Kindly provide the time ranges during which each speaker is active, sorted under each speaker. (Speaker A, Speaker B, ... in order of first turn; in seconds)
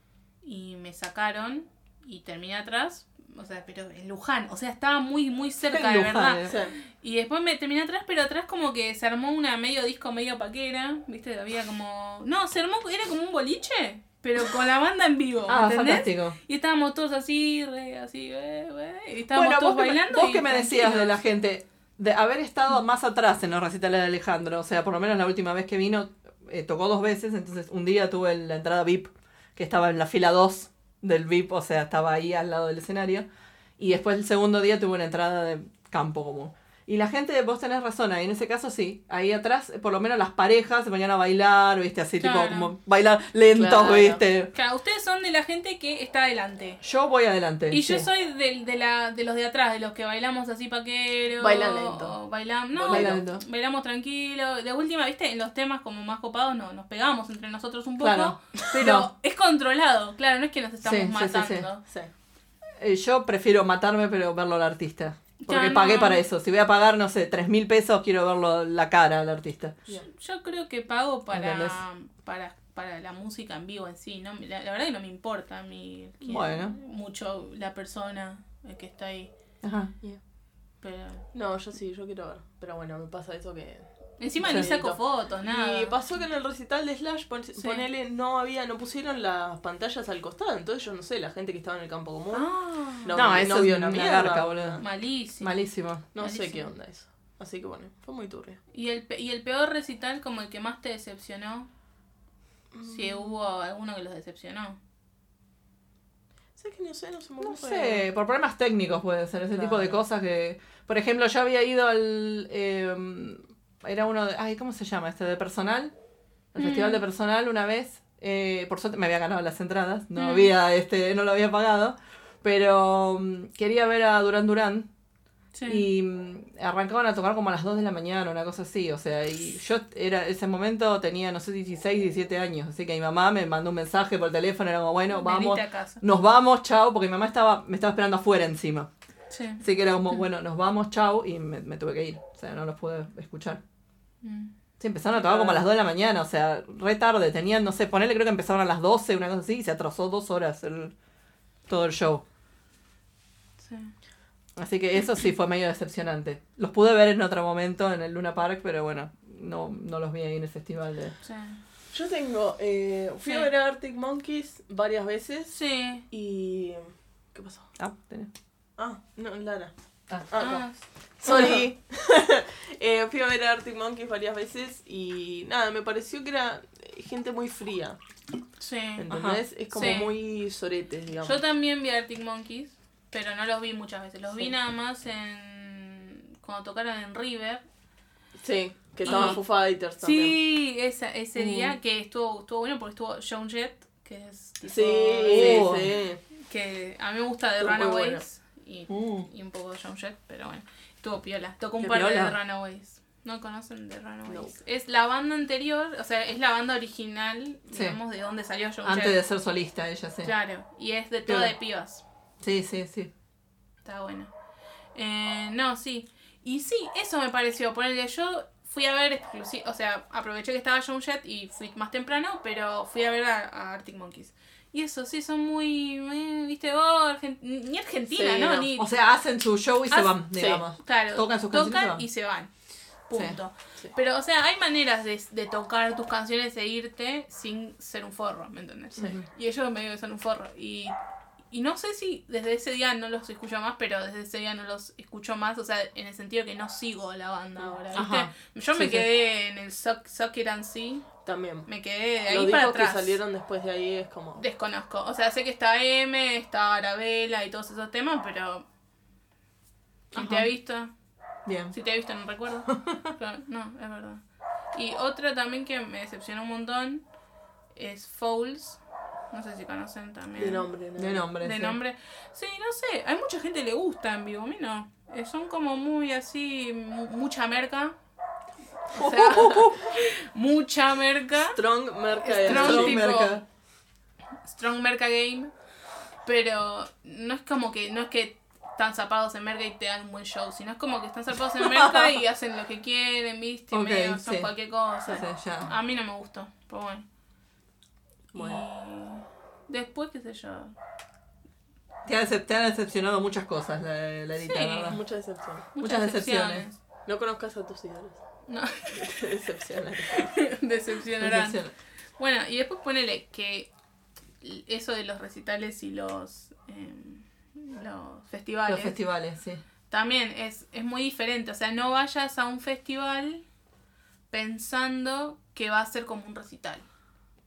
Speaker A: 0.4-21.2, 42.2-42.7, 44.5-46.8, 47.7-61.8, 65.5-66.2, 70.1-79.3, 80.8-81.3, 84.2-86.0, 87.6-87.8, 92.3-93.2, 94.8-95.6, 96.2-96.7, 98.7-101.7, 102.8-104.8, 116.6-117.0, 120.2-120.5, 125.5-125.8, 135.1-136.0, 139.3-140.2, 144.2-144.5, 153.6-153.9, 161.2-161.6, 165.5-166.0, 170.3-170.8, 178.6-179.1, 179.7-180.1, 181.2-187.6, 189.1-189.4, 190.0-195.7, 196.5-209.2, 210.2-212.0, 213.8-214.3, 214.9-228.9, 229.9-230.2, 230.7-232.5, 233.1-240.9, 241.5-251.1, 251.7-253.2, 254.4-258.6, 260.1-260.9, 261.7-264.2, 264.7-267.0, 267.8-268.8, 269.3-270.7, 271.4-277.9, 278.9-281.6, 282.2-283.4, 284.4-285.5, 286.3-297.1, 298.3-300.8, 304.4-305.0, 305.7-306.8, 308.5-309.3, 310.1-311.6, 312.2-313.7, 314.4-319.0, 319.9-323.4, 324.3-326.9
Speaker B: 5.7-6.6, 15.5-16.4, 19.3-33.3, 33.8-44.5, 46.8-48.1, 52.9-53.4, 58.0-59.1, 60.8-61.7, 62.8-69.8, 71.3-71.8, 76.2-76.8, 79.6-79.9, 93.1-94.8, 95.4-96.1, 107.4-115.9, 116.5-124.9, 125.7-138.9, 139.6-143.6, 144.8-150.9, 151.7-152.2, 154.6-161.2, 167.8-168.3, 171.3-171.6, 179.1-179.4, 189.1-189.4, 191.4-191.8, 195.3-195.9, 198.9-199.3, 201.8-202.3, 207.7-208.0, 208.8-210.3, 211.3-211.5, 212.4-213.1, 228.8-232.0, 233.1-233.4, 247.9-249.1, 260.1-260.5, 261.5-261.7, 262.7-263.1, 271.0-271.8, 278.9-280.0, 282.5-283.4, 291.6-292.1, 293.7-294.5, 295.1-295.7, 302.1-305.0, 305.8-306.7, 311.2-311.7, 318.7-319.6
Speaker C: 6.5-6.8, 43.5-44.2, 51.4-52.2, 52.7-53.2, 81.3-92.5, 93.0-94.8, 96.1-98.6, 102.7-103.4, 106.6-108.1, 109.5-110.0, 145.2-145.6, 161.9-165.6, 166.1-167.7, 168.8-169.7, 170.3-170.6, 171.2-178.0, 179.0-181.4, 188.4-190.4, 194.7-196.2, 197.6-198.2, 204.3-204.5, 228.1-228.7, 230.3-230.6, 251.2-251.7, 252.3-254.4, 270.4-271.3, 281.5-283.0, 298.3-298.6, 304.9-305.7, 307.1-308.2, 308.9-310.3